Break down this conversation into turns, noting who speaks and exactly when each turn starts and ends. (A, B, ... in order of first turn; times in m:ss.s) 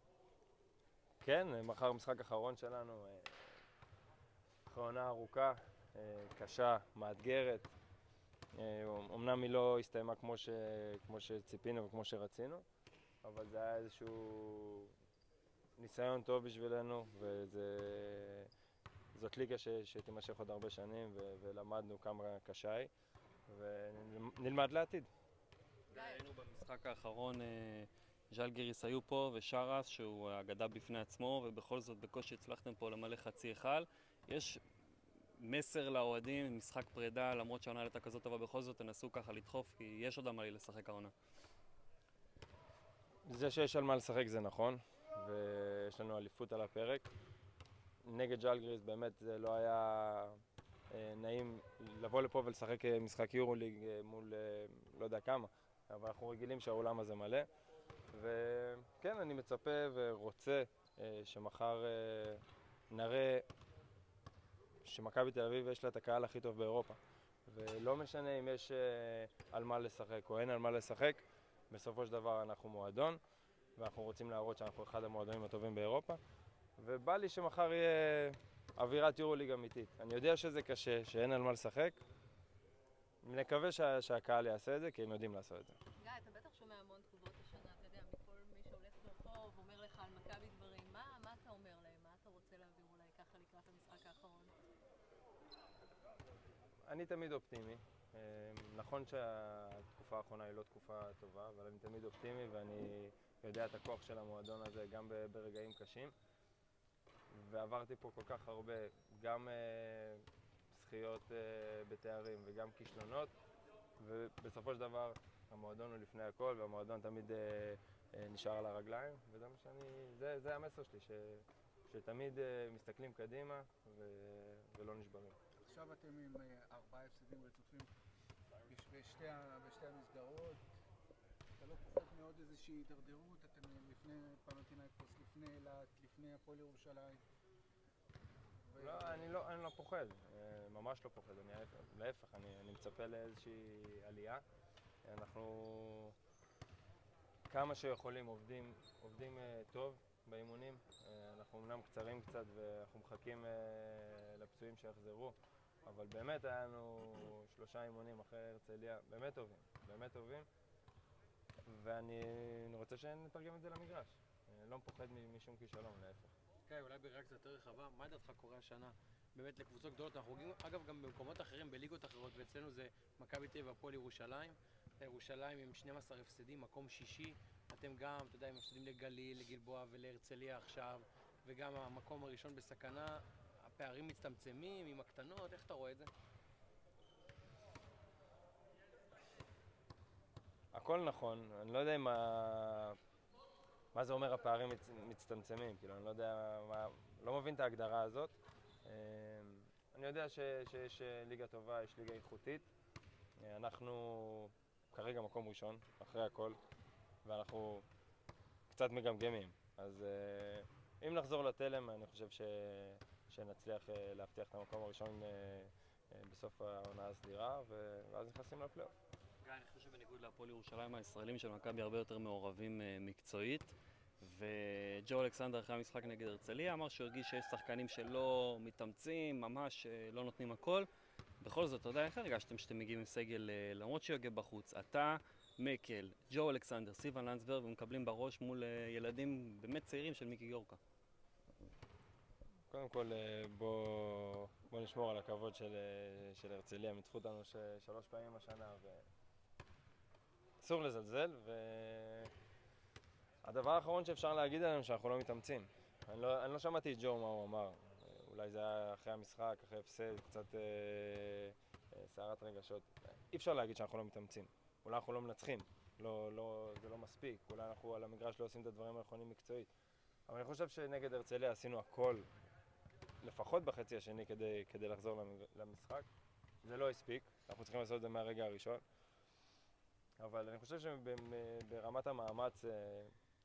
0:01.2-0:03.6 A
0:04.7-0:07.7 A
0:08.5-0:12.6 A
0:13.2-0:14.9 A
0:15.8-0:18.5 A
0:19.1-0:22.9 A
0:23.5-0:25.1 A
0:25.9-0:34.6 B
0:25.9-0:26.3 C
0:35.4-0:41.1 B
0:43.2-0:47.1 A
0:48.0-0:50.4 A
0:50.9-0:57.5 A
0:58.1-1:03.4 A
1:04.8-1:13.2 A
1:13.8-1:16.2 A
1:16.8-1:22.0 A
1:23.2-1:25.8 A
1:26.0-1:34.5 C
1:36.9-1:46.1 A
1:47.3-1:53.3 A
1:54.0-2:05.4 A
2:05.6-2:07.9 D
2:08.7-2:10.7 D
2:11.6-2:17.2 D
2:18.7-2:19.4 D
2:18.8-2:24.4 A
2:25.0-2:26.2 A
2:27.5-2:40.5 A
2:41.7-2:46.3 A
2:46.7-3:06.1 E
3:10.7-3:13.0 A
3:13.9-3:22.7 A
3:23.4-3:26.6 A
3:27.2-3:27.9 A
3:28.7-3:38.9 A
3:39.4-3:50.9 B
3:51.4-4:00.8 B
4:02.7-4:09.0 A
4:10.6-4:12.3 A
4:13.4-4:29.7 A
4:30.3-4:32.3 A
4:33.2-4:36.1 A
4:36.6-4:38.8 A
4:40.2-4:43.1 A